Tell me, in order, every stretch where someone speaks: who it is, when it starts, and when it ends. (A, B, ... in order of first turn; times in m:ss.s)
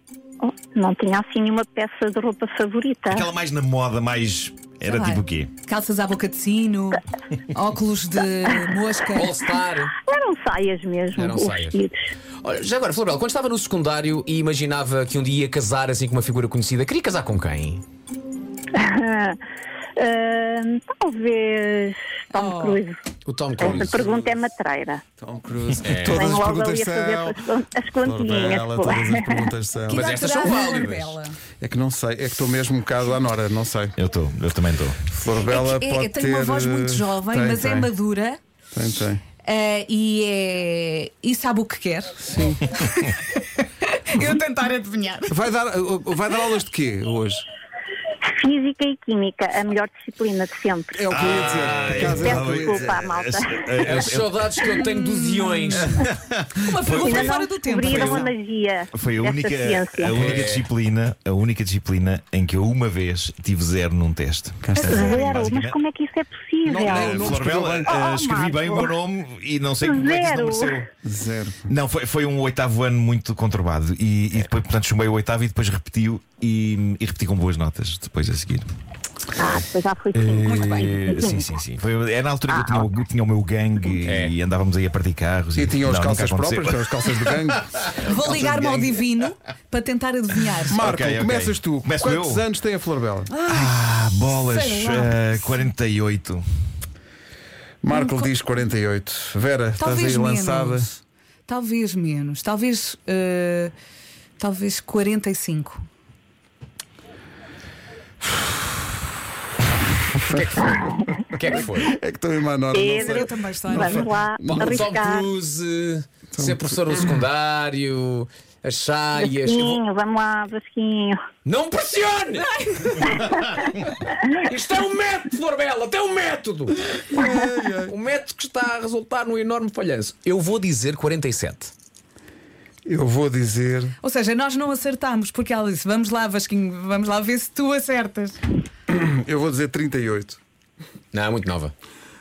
0:00.4-0:03.3 A
0:03.1-0:05.5 B
0:04.9-0:09.4 C
0:09.1-0:09.9 D
0:10.0-0:12.1 A
0:11.1-0:11.8 D
0:12.4-0:17.8 D
0:18.7-0:19.4 A
0:20.0-0:23.0 A
0:22.3-0:22.8 C
0:23.2-0:24.1 D
0:23.6-0:25.0 A
0:23.6-0:24.3 E
0:25.2-0:27.4 E
0:25.8-0:26.4 D
0:26.1-0:29.4 A
0:28.0-0:30.2 E
0:29.9-0:31.4 C
0:29.9-0:31.2 D
0:31.6-0:33.9 E
0:34.0-0:35.0 B
0:35.1-0:37.9 E
0:35.4-0:38.4 C
0:38.7-0:39.2 E
0:39.4-0:45.4 C
0:42.2-0:42.6 E
0:45.3-0:47.4 E
0:48.2-0:51.1 A
0:50.9-0:53.1 E
0:51.1-0:54.7 B
0:52.1-0:53.7 A
0:53.8-0:56.0 D
0:54.8-0:56.0 C
0:55.8-0:58.3 B
0:56.6-0:58.2 C
0:56.9-1:00.2 A
0:58.9-1:05.8 B
1:00.1-1:00.7 D
1:04.6-1:05.3 E
1:04.8-1:07.3 A
1:06.6-1:08.0 E
1:06.8-1:10.9 B
1:07.8-1:08.9 A
1:09.8-1:10.8 A
1:11.0-1:11.7 E
1:11.7-1:18.7 B
1:19.3-1:21.4 A
1:20.1-1:27.3 B
1:20.5-1:21.2 C
1:22.5-1:22.9 A
1:24.0-1:24.4 D
1:25.5-1:27.9 E
1:27.9-1:28.9 B
1:28.0-1:30.8 C
1:30.7-1:33.3 E
1:30.8-1:32.4 B
1:33.3-1:35.7 C
1:33.5-1:36.4 B
1:37.8-1:40.9 E
1:37.9-1:38.3 C
1:39.8-1:41.0 C
1:41.5-1:43.7 C
1:44.4-1:45.8 C
1:50.0-1:51.1 E
1:50.3-1:51.9 D
1:51.7-1:54.9 E
1:52.7-1:55.3 A
1:52.8-1:54.1 C
1:54.4-1:59.8 D
1:56.3-1:57.0 E
1:59.2-2:01.2 A
2:01.4-2:03.4 D
2:03.0-2:03.6 A
2:04.3-2:07.3 D
2:07.1-2:07.9 E
2:07.9-2:11.7 D
2:12.8-2:13.9 E
2:14.0-2:18.4 C
2:18.9-2:20.4 E
2:21.1-2:21.7 D